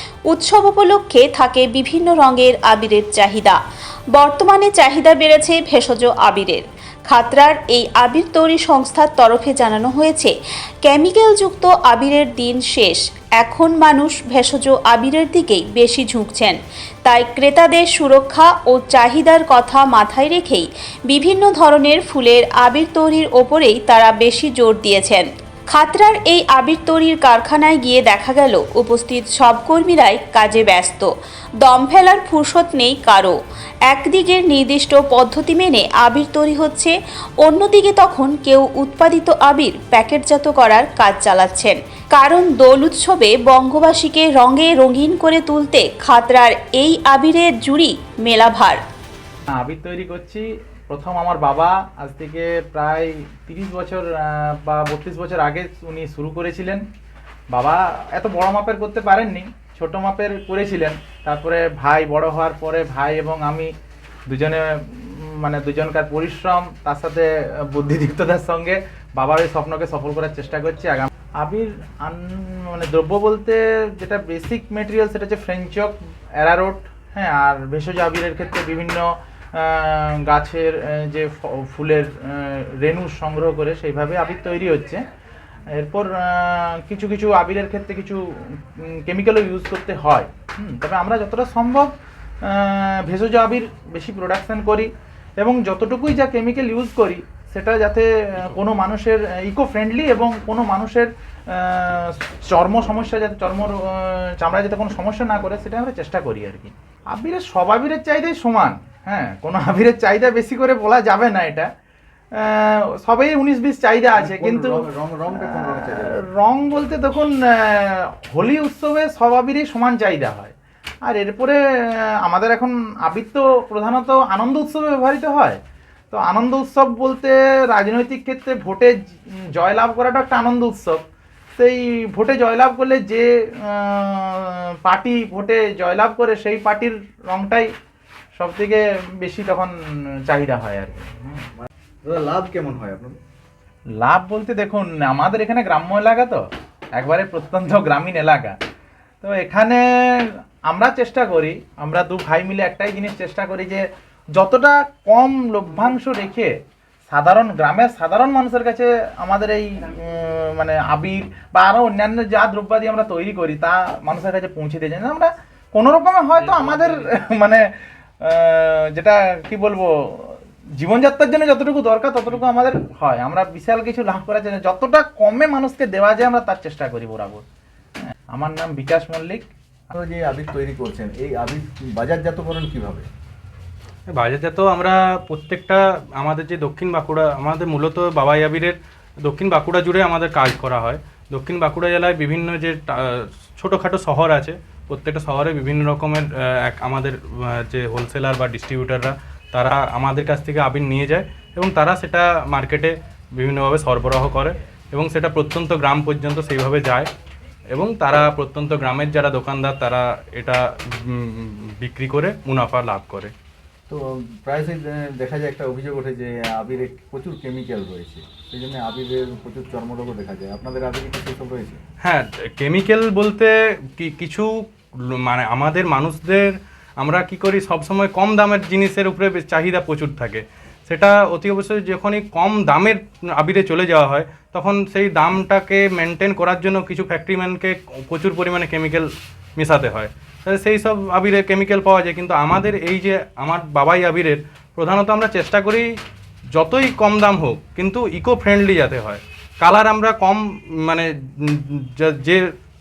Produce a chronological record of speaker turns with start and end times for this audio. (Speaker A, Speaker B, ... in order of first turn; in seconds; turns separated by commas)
Speaker A: 0.3-3.6, Speaker A: 4.1-10.3, Speaker A: 10.8-33.4, Speaker A: 33.9-48.8, Speaker B: 49.5-56.8, Speaker B: 57.5-63.7, Speaker B: 64.3-85.0, Speaker B: 85.7-91.9, Speaker B: 92.4-111.7, Speaker B: 112.3-114.8, Speaker C: 114.1-116.2, Speaker B: 115.3-120.5, Speaker B: 121.0-125.6, Speaker B: 126.1-131.0, Speaker B: 131.6-137.7, Speaker B: 138.3-139.8, Speaker B: 140.3-141.5, Speaker C: 142.0-143.2, Speaker B: 144.0-146.4, Speaker B: 146.9-148.6, Speaker B: 149.2-156.5, Speaker B: 157.1-177.4, Speaker B: 178.3-179.5, Speaker C: 179.9-183.1, Speaker D: 184.1-207.1, Speaker D: 207.7-213.3, Speaker C: 213.9-221.8, Speaker D: 222.0-245.9, Speaker D: 246.5-252.4